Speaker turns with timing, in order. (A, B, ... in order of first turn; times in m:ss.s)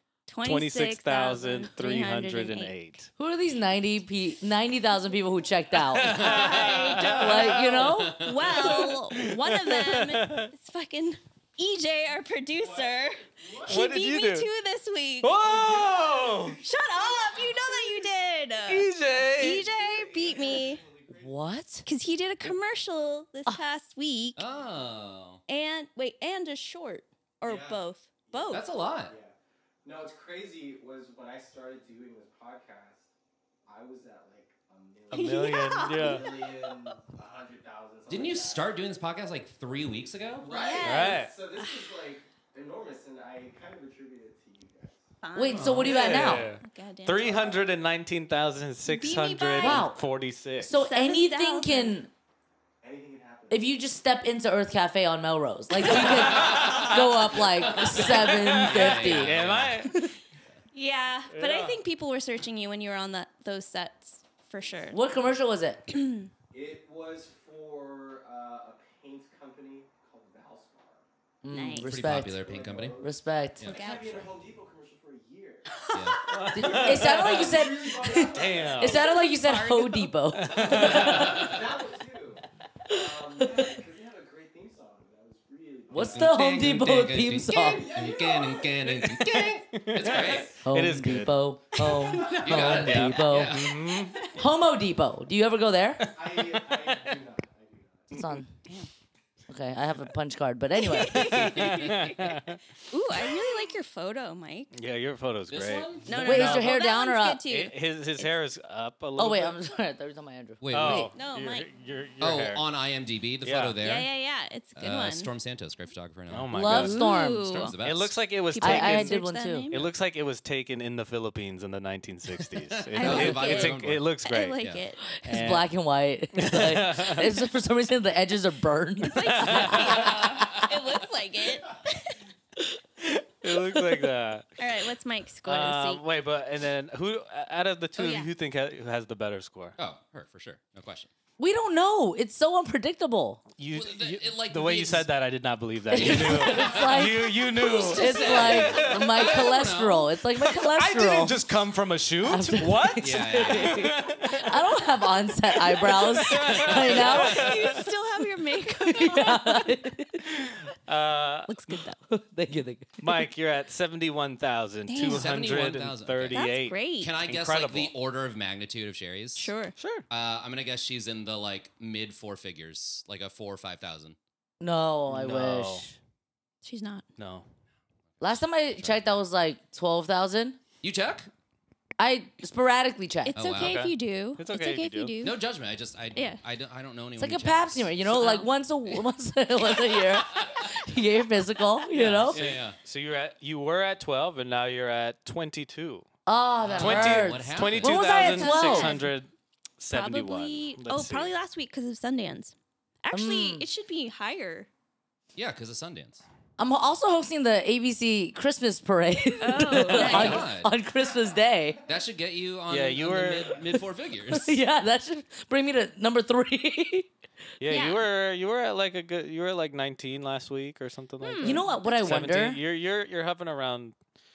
0:00.3-0:02.8 A
0:00.4-0:03.1 B
0:03.2-0:06.2 C
0:05.9-0:08.0 B
0:06.1-0:08.7 D
0:06.2-0:15.4 A
0:07.1-0:08.3 C
0:08.5-0:10.5 B
0:12.5-0:13.8 E
0:13.7-0:14.5 B
0:15.2-0:16.6 B
0:15.4-0:18.1 E
0:16.6-0:20.8 A
0:18.7-0:19.6 B
0:19.0-0:21.3 E
0:21.2-0:21.8 C
0:21.9-0:24.4 A
0:24.4-0:25.4 D
0:25.5-0:28.6 A
0:27.4-0:33.1 E
0:28.5-0:29.2 D
0:33.7-0:38.8 E
0:35.1-0:36.2 B
0:35.1-0:36.7 A
0:38.1-0:40.5 D
0:40.4-0:45.1 E
0:40.5-0:41.9 A
0:40.8-0:41.3 B
0:45.2-0:47.3 A
0:45.4-0:46.5 C
0:45.5-0:50.8 B
0:47.2-0:47.7 E
0:48.9-0:49.9 A
0:49.6-0:50.0 C
0:50.6-0:52.1 C
0:50.7-0:52.0 A
0:52.8-0:53.7 E
0:53.5-0:59.3 C
0:55.9-0:57.1 B
0:56.0-0:59.9 D
0:57.9-1:00.1 B
1:00.7-1:05.0 A
1:01.3-1:01.8 B
1:04.6-1:05.3 E
1:04.9-1:05.8 C
1:05.9-1:06.3 A
1:06.5-1:11.0 E
1:11.4-1:12.4 C
1:11.5-1:12.0 A
1:11.8-1:13.0 D
1:12.0-1:19.2 E
1:13.0-1:13.7 C
1:13.6-1:14.2 A
1:15.7-1:16.2 A
1:15.9-1:16.2 D
1:16.3-1:17.5 B
1:16.5-1:21.5 C
1:18.3-1:19.2 B
1:19.2-1:20.1 A
1:20.3-1:21.4 B
1:20.5-1:26.4 E
1:20.7-1:21.7 D
1:22.9-1:23.8 C
1:25.9-1:27.9 C
1:26.0-1:30.6 D
1:27.4-1:30.6 E
1:28.9-1:31.4 B
1:30.6-1:33.6 C
1:31.8-1:32.3 A
1:32.0-1:32.5 E
1:32.3-1:33.9 D
1:32.4-1:34.2 B
1:34.0-1:34.4 A
1:34.4-1:36.1 C
1:36.0-1:37.2 B
1:36.1-1:38.2 E
1:38.1-1:38.5 C
1:39.5-1:41.7 C
1:40.8-1:44.7 A
1:41.1-1:42.6 B
1:44.7-1:46.8 B
1:45.5-1:46.2 D
1:46.1-1:48.3 A
1:46.2-1:47.5 C
1:47.5-1:49.6 B
1:49.2-1:51.1 C
1:50.6-1:51.1 D
1:50.7-1:52.6 B
1:51.1-1:51.7 A
1:52.2-1:54.1 D
1:53.4-1:53.8 B
1:53.8-1:55.3 A
1:54.8-1:56.7 D
1:56.3-1:57.1 B
1:56.5-1:57.6 C
1:56.7-1:57.8 A
1:57.5-1:58.2 D
1:57.8-1:59.2 B
1:58.5-1:59.8 A
1:58.6-1:59.7 C
1:59.7-2:04.6 B
2:03.0-2:05.2 A
2:03.0-2:04.8 D
2:05.2-2:10.6 C
2:05.2-2:05.7 B
2:06.3-2:07.3 B
2:09.0-2:12.2 A
2:09.3-2:10.2 B
2:10.0-2:10.6 D
2:13.0-2:14.5 B
2:14.6-2:16.0 A
2:15.4-2:19.8 B
2:18.0-2:18.3 A
2:19.8-2:21.1 D
2:21.4-2:23.4 C
2:23.6-2:29.3 B
2:23.7-2:25.1 D
2:25.9-2:31.4 C
2:26.5-2:26.8 D
2:27.6-2:30.1 D
2:30.4-2:34.5 B
2:32.2-2:37.6 C
2:33.0-2:33.9 D
2:35.8-2:37.8 B
2:36.5-2:37.2 D
2:36.9-2:39.7 A
2:38.8-2:40.2 C
2:40.3-2:41.8 B
2:41.5-2:42.0 A
2:42.1-2:43.3 C
2:43.0-2:47.9 B
2:44.9-2:45.3 A
2:45.0-2:46.4 D
2:46.3-2:47.1 A
2:47.0-2:49.5 D
2:49.4-2:49.8 A
2:49.8-2:50.1 B
2:50.1-2:54.2 D
2:54.6-2:56.0 C
2:55.1-2:55.9 B
2:56.6-2:57.0 A
2:57.2-2:57.5 B
2:58.2-2:59.0 D
2:58.2-3:00.6 C
3:00.8-3:01.3 D
3:02.0-3:03.4 C
3:03.2-3:05.4 A
3:03.4-3:03.8 D
3:03.6-3:05.2 B
3:05.2-3:08.1 D
3:06.2-3:06.4 A
3:07.2-3:12.4 C
3:08.2-3:08.4 A
3:10.0-3:10.6 D
3:11.9-3:16.1 B
3:12.2-3:12.8 D
3:16.3-3:18.9 C
3:16.6-3:18.0 D
3:16.8-3:21.3 B
3:17.8-3:19.1 A
3:19.9-3:24.7 A
3:23.1-3:23.7 C
3:25.4-3:26.2 D
3:26.6-3:31.8 C
3:29.4-3:30.4 A
3:29.8-3:30.4 B
3:30.0-3:30.7 D
3:31.9-3:34.6 D
3:32.7-3:33.6 B
3:34.3-3:37.1 C
3:37.6-3:44.0 B
3:37.7-3:38.0 A
3:41.2-3:41.7 A
3:41.4-3:42.6 C